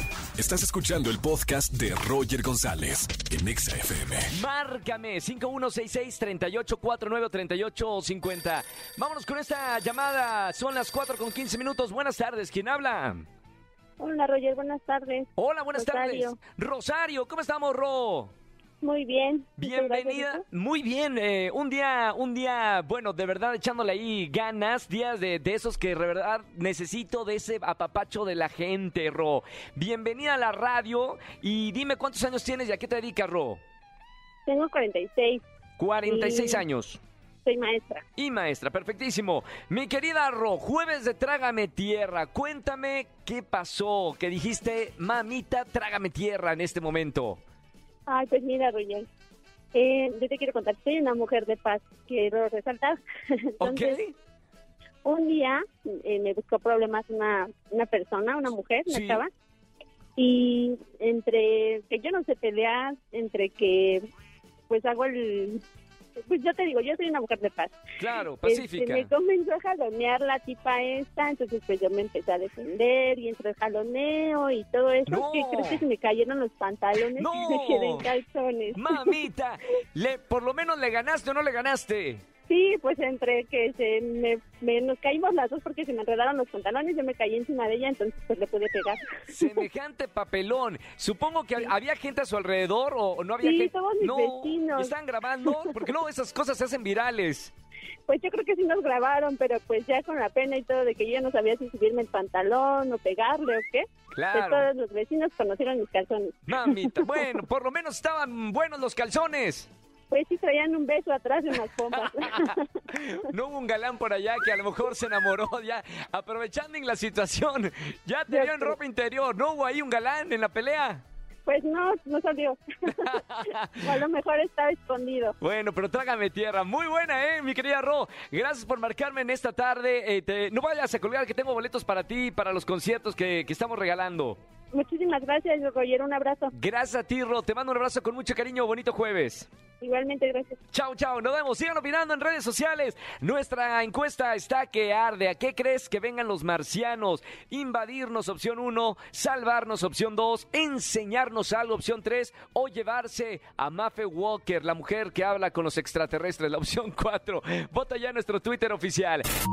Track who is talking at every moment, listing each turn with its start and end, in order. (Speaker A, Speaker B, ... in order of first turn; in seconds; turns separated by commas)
Speaker A: 0.3-4.3, Speaker B: 4.3-13.2, Speaker C: 14.0-16.4, Speaker B: 15.4-18.3, Speaker C: 18.8-20.4, Speaker B: 19.6-33.6, Speaker C: 34.5-35.4, Speaker B: 35.8-37.0, Speaker C: 36.0-36.6, Speaker C: 37.4-38.0, Speaker B: 38.2-47.4, Speaker C: 48.1-49.0, Speaker C: 49.7-54.0, Speaker B: 53.6-54.1, Speaker C: 55.0-59.3, Speaker B: 58.9-59.2, Speaker C: 60.1-64.0, Speaker C: 64.7-65.6, Speaker C: 66.2-67.8, Speaker B: 68.0-69.1, Speaker C: 68.4-79.2, Speaker B: 75.1-75.8, Speaker B: 77.1-78.1, Speaker B: 78.7-82.2, Speaker C: 82.5-89.6, Speaker B: 89.3-97.5, Speaker C: 93.4-94.9, Speaker C: 95.4-95.7, Speaker C: 98.1-107.3, Speaker B: 104.1-104.7, Speaker B: 106.5-109.7, Speaker C: 110.1-112.7, Speaker B: 112.0-121.0, Speaker C: 118.3-118.8, Speaker C: 121.5-125.3, Speaker B: 122.9-124.0, Speaker B: 125.4-134.4, Speaker C: 134.7-136.5, Speaker B: 136.5-139.5, Speaker C: 139.8-140.6, Speaker B: 140.7-159.2